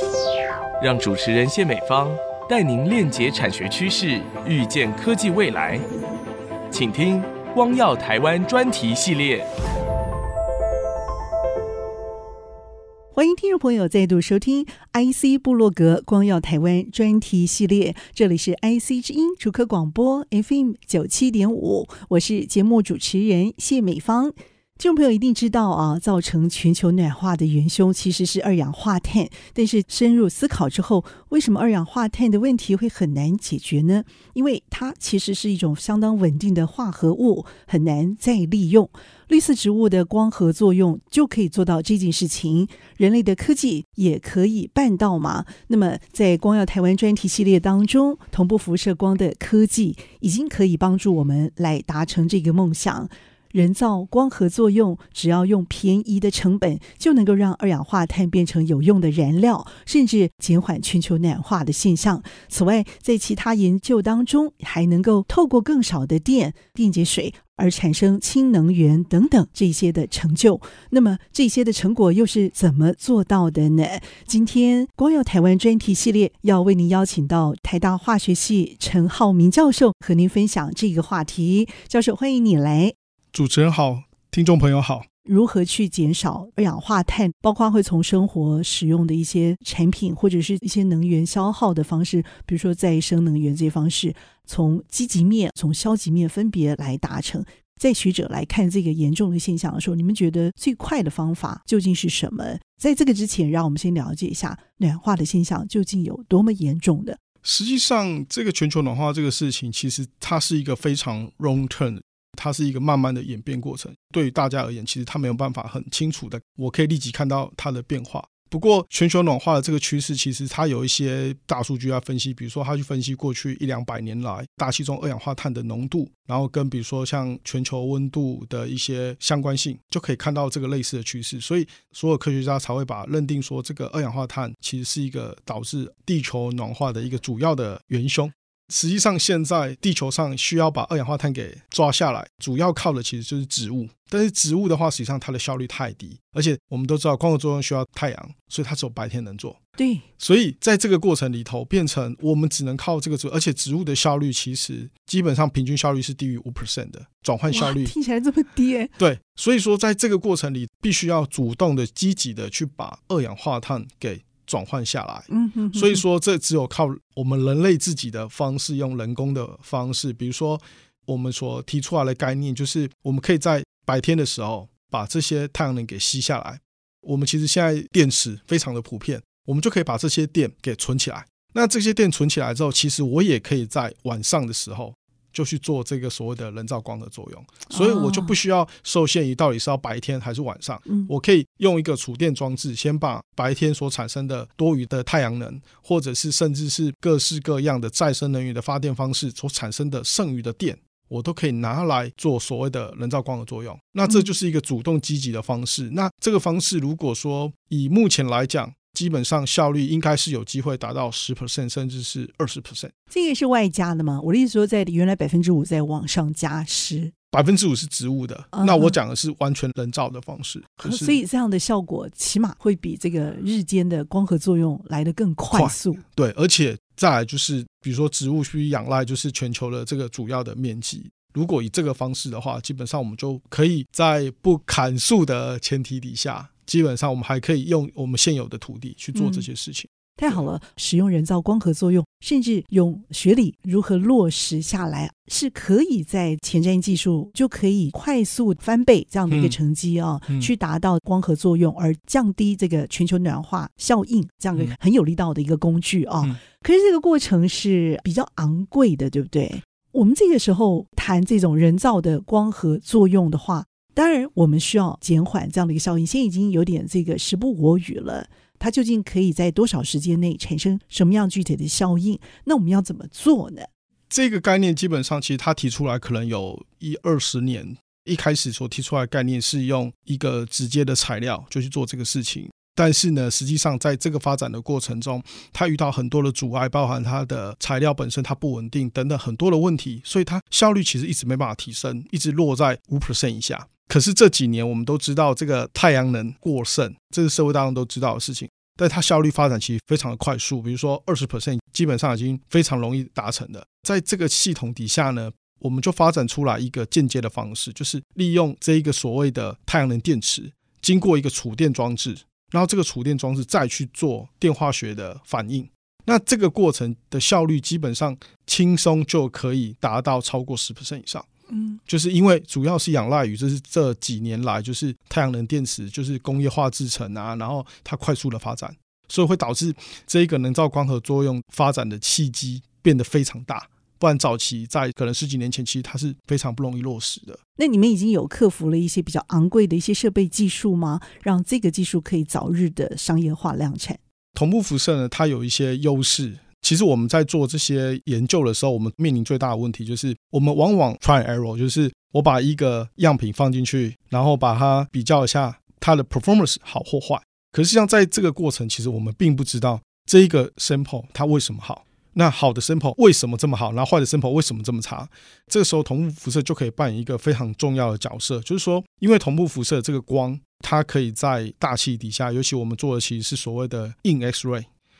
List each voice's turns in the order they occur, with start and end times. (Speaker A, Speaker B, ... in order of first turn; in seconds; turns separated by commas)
Speaker A: 0.8-5.8, Speaker A: 6.7-9.5, Speaker B: 13.1-83.0, Speaker C: 83.3-85.0, Speaker B: 85.2-107.2, Speaker C: 107.4-149.6, Speaker B: 149.8-150.0, Speaker C: 150.2-157.9, Speaker B: 157.5-158.9, Speaker C: 159.0-212.9, Speaker B: 165.3-166.0, Speaker B: 187.7-188.3, Speaker B: 213.1-217.1, Speaker C: 217.3-221.2, Speaker B: 218.5-218.9, Speaker B: 220.8-226.0, Speaker C: 225.5-240.4, Speaker B: 239.1-239.4, Speaker B: 240.2-273.7, Speaker C: 249.3-249.6, Speaker C: 274.1-321.2, Speaker B: 321.5-321.8, Speaker C: 321.9-337.4, Speaker B: 337.6-344.0, Speaker C: 344.3-374.7